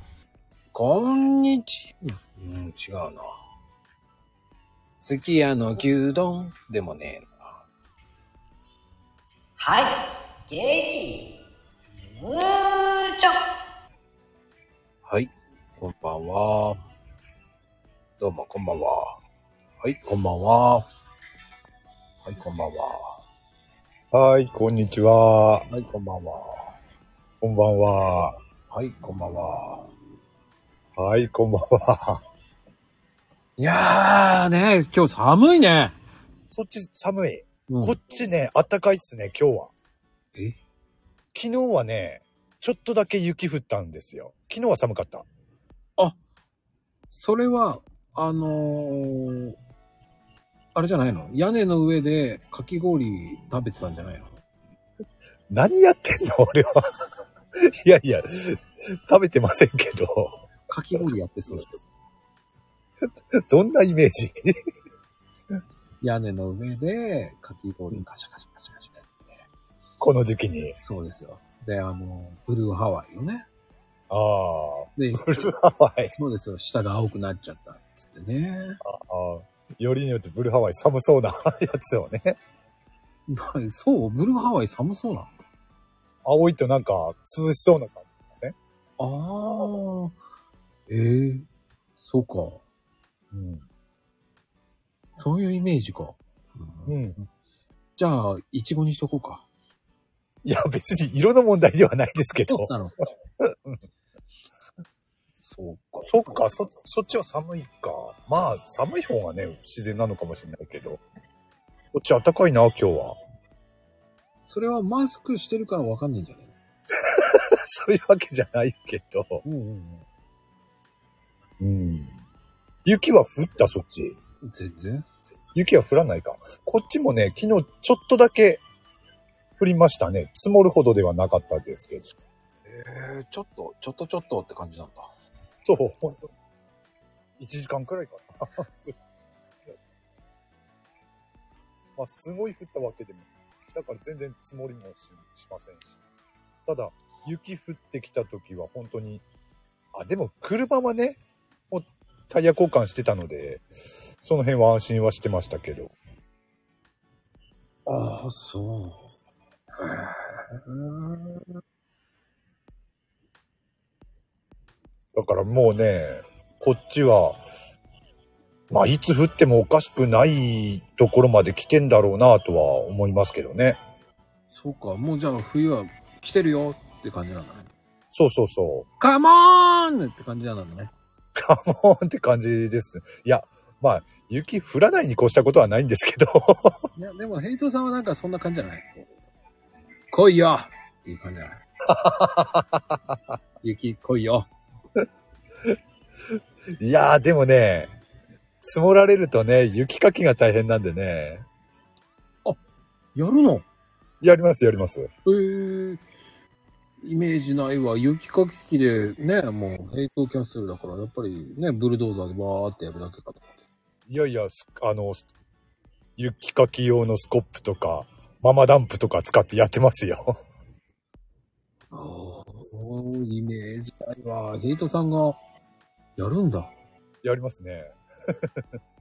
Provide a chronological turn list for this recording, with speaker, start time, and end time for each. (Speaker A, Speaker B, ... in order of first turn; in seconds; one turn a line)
Speaker A: 0.7-3.2
Speaker A: 5.0-7.6
Speaker B: 9.6-11.3
Speaker B: 12.1-13.4
Speaker A: 15.0-16.8
Speaker A: 18.2-19.2
Speaker A: 19.8-20.8
Speaker A: 22.2-23.0
Speaker C: 24.1-25.6
Speaker A: 25.7-26.6
Speaker C: 27.4-28.3
Speaker A: 28.7-29.9
Speaker C: 31.0-32.2
Speaker A: 33.6-35.9
Speaker C: 36.5-39.7
Speaker A: 37.7-38.0
Speaker C: 41.3-45.2
Speaker A: 47.1-49.5
Speaker A: 50.7-54.4
Speaker C: 55.5-56.8
Speaker C: 57.7-60.4
Speaker A: 60.7-61.8
Speaker C: 63.3-64.5
Speaker A: 66.0-69.5
Speaker C: 70.0-70.8
Speaker A: 70.8-73.4
Speaker C: 74.1-76.1
Speaker A: 75.0-75.5
Speaker A: 76.1-78.8
Speaker C: 78.8-82.4
Speaker A: 83.3-85.3
Speaker C: 86.2-88.5
Speaker A: 89.0-90.2
Speaker A: 90.9-91.4
Speaker A: 92.0-92.6
Speaker C: 93.3-93.6
Speaker A: 95.2-97.3
Speaker C: 96.9-97.2
Speaker A: 98.0-99.5
Speaker C: 100.4-102.7
Speaker A: 102.5-103.0
Speaker C: 103.4-103.8
Speaker A: 105.4-106.6
Speaker C: 106.0-111.0
Speaker C: 111.9-113.2
Speaker A: 114.5-116.5
Speaker C: 117.1-119.4
Speaker A: 119.4-120.0
Speaker C: 121.6-122.1
Speaker C: 122.8-124.2
Speaker A: 124.4-125.0
Speaker C: 125.5-128.6
Speaker C: 129.6-132.1
Speaker A: 132.7-135.1
Speaker C: 135.6-136.3
Speaker C: 137.4-138.9
Speaker C: 141.9-146.0
Speaker C: 146.7-149.2
Speaker C: 149.9-153.7
Speaker C: 154.2-155.9
Speaker A: 157.8-159.1
Speaker A: 159.8-161.5
Speaker C: 165.1-167.4
Speaker C: 168.7-173.8
Speaker A: 174.5-177.7
Speaker C: 178.1-178.9
Speaker A: 179.0-180.9
Speaker C: 181.3-186.8
Speaker A: 187.0-189.1
Speaker A: 190.1-191.6
Speaker C: 191.9-193.2
Speaker A: 193.6-194.5
Speaker C: 196.8-197.9
Speaker C: 198.6-201.4
Speaker A: 203.1-203.7
Speaker C: 204.2-205.1
Speaker A: 205.2-206.0
Speaker A: 207.0-213.6
Speaker C: 214.1-215.2
Speaker C: 216.2-220.3
Speaker A: 221.9-225.4
Speaker A: 226.2-226.7
Speaker C: 227.2-228.0